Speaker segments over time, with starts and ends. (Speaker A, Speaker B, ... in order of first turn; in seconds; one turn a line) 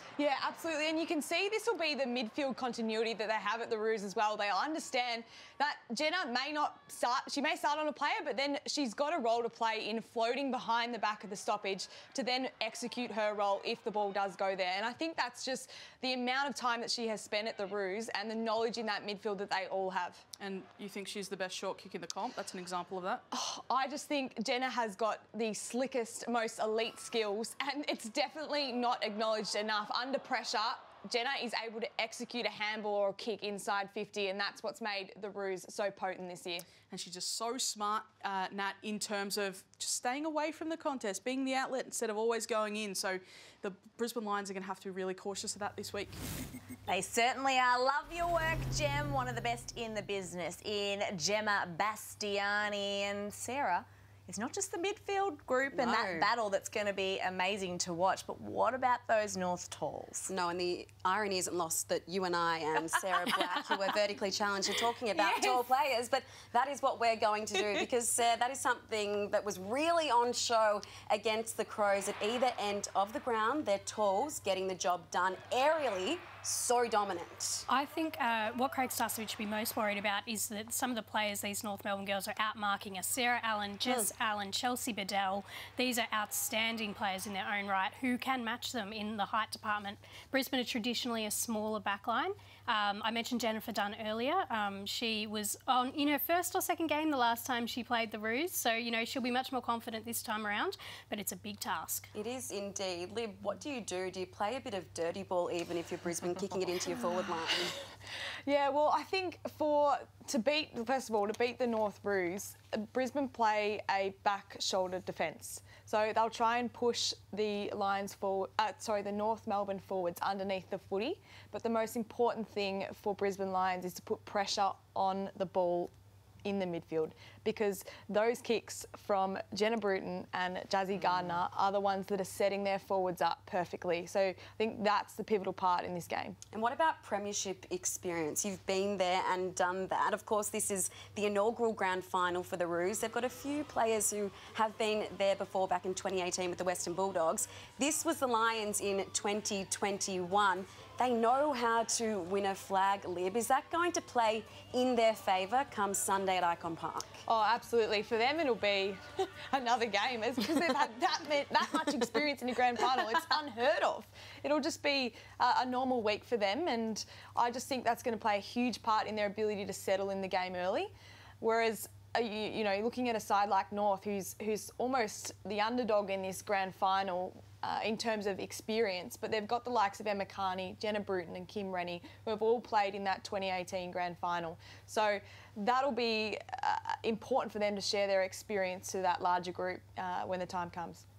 Speaker A: 0.2-20.2
Speaker B: 20.4-23.2
Speaker A: 23.3-36.7
Speaker B: 36.9-46.2
Speaker C: 46.9-60.3
Speaker D: 55.7-56.3
Speaker D: 60.3-77.6
Speaker C: 63.3-63.6
Speaker C: 65.1-65.6
Speaker E: 77.7-102.1
Speaker D: 83.8-84.1
Speaker D: 102.1-107.8
Speaker A: 108.5-125.9
Speaker A: 126.4-136.4
Speaker D: 136.5-157.2
Speaker A: 157.3-191.0